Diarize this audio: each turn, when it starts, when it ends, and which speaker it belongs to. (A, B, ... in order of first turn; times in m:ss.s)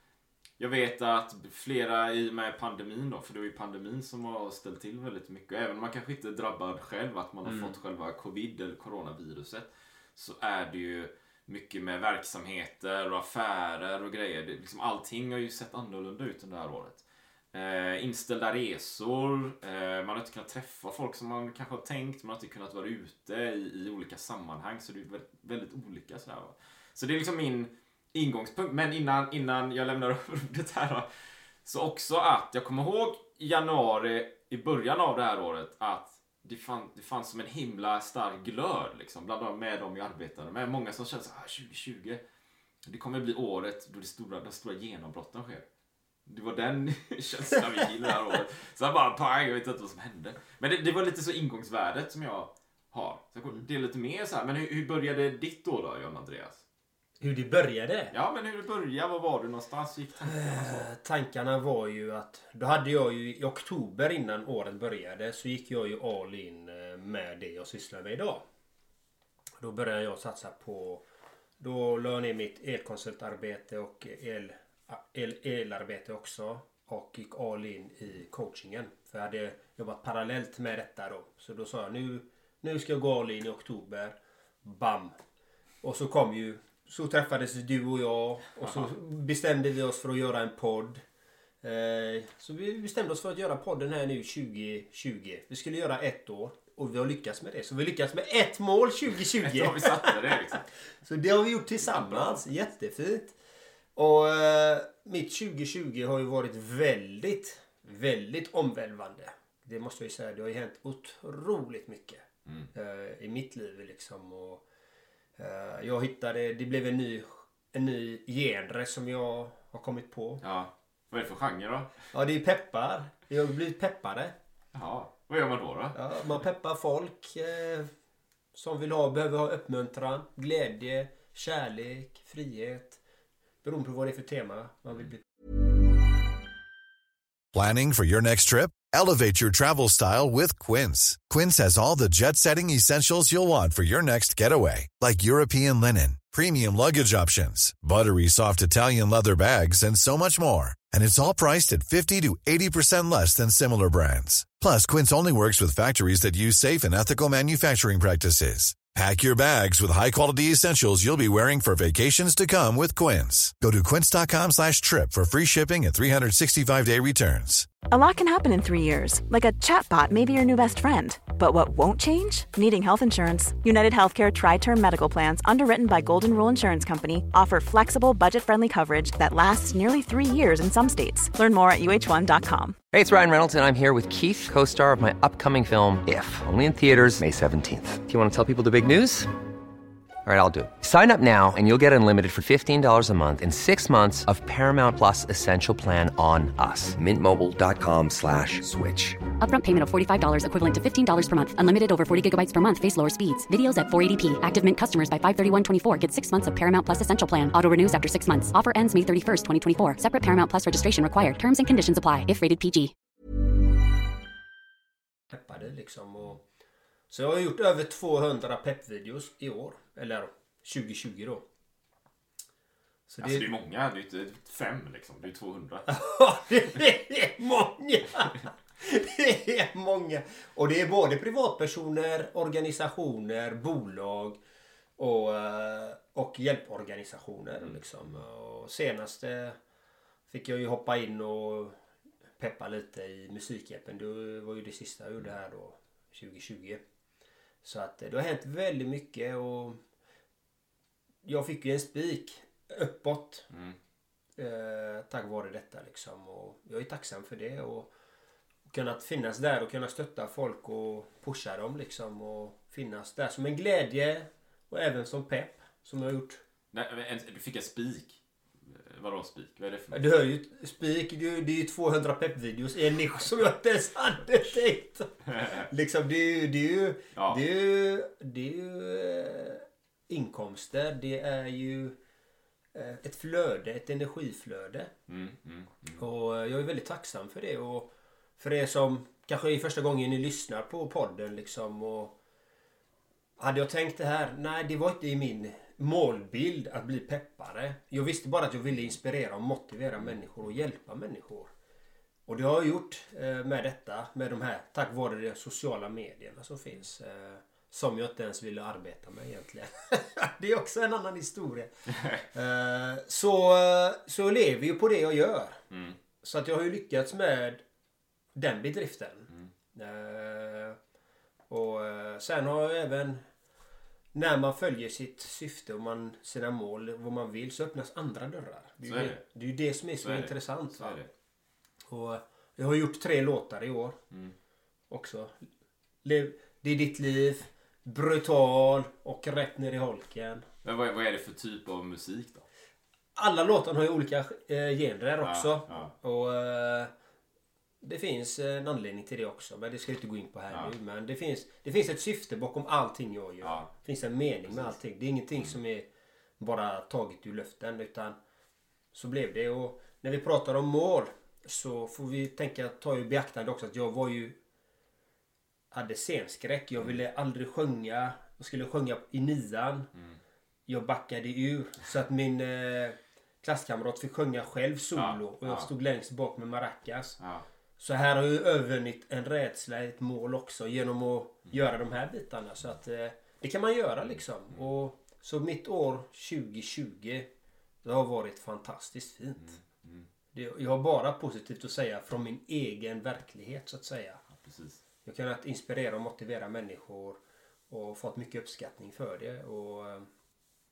0:00.6-0:31.0 A
0:07.4-0:07.8 B
0:31.6-0:42.2 A
0:42.8-0:45.6 A
0:46.2-0:56.6 A
0:57.2-0:58.1 B
0:58.1-1:00.8 A
1:00.2-1:08.4 B
1:09.6-1:11.0 B
1:11.6-1:25.2 B
1:25.8-1:31.0 B
1:31.6-1:40.4 B
1:39.3-1:40.7 A
1:41.0-1:43.4 B
1:41.8-1:42.5 A
1:44.0-1:54.6 B
1:55.4-2:00.4 B
2:00.4-2:01.9 A
2:02.1-2:04.3 B
2:04.7-2:06.0 A
2:05.9-2:07.9 B
2:08.5-2:13.0 B
2:13.6-2:15.2 B
2:17.5-2:47.7 C
2:47.9-3:02.8 D
3:02.9-3:09.3 E
3:10.2-3:19.2 E
3:19.4-3:32.9 F
3:35.3-3:36.4 B
3:37.1-3:41.4 B
3:43.1-3:43.5 B
3:43.2-3:45.9 A
3:45.9-3:54.4 B
3:55.0-3:59.6 B
4:00.3-4:01.8 B
4:02.4-4:06.8 B
4:07.6-4:09.8 B
4:11.2-4:13.4 B
4:13.5-4:13.8 A
4:14.4-4:17.9 B
4:18.6-4:26.4 B
4:26.7-4:30.0 A
4:29.9-4:42.0 B
4:35.3-4:35.7 A
4:42.7-4:44.9 B
4:45.1-4:46.0 A
4:46.0-4:52.1 B
4:53.4-5:01.5 B
5:02.3-5:11.7 B
5:11.9-5:12.2 A
5:12.3-5:15.6 B
5:15.7-5:16.0 A
5:16.2-5:17.6 B
5:18.3-5:20.8 B
5:21.5-5:23.2 B
5:24.1-5:31.0 B
5:28.8-5:29.2 A
5:30.0-5:31.1 A
5:31.9-5:34.0 B
5:34.9-5:35.5 B
5:36.0-5:40.4 B
5:40.6-5:42.4 A
5:43.2-5:46.9 B
5:45.2-5:45.9 A
5:47.8-5:55.9 B
5:53.4-5:53.7 A
5:54.5-5:54.7 A
5:56.4-5:58.2 B
5:58.9-6:04.4 B
6:05.7-6:09.9 B
6:09.9-6:10.2 A
6:10.7-6:17.2 B
6:14.9-6:15.7 A
6:17.2-6:17.4 A
6:17.8-6:27.3 B
6:27.8-6:29.6 B
6:29.4-6:30.1 A
6:30.3-6:34.2 B
6:34.4-6:34.8 A
6:35.0-6:40.1 B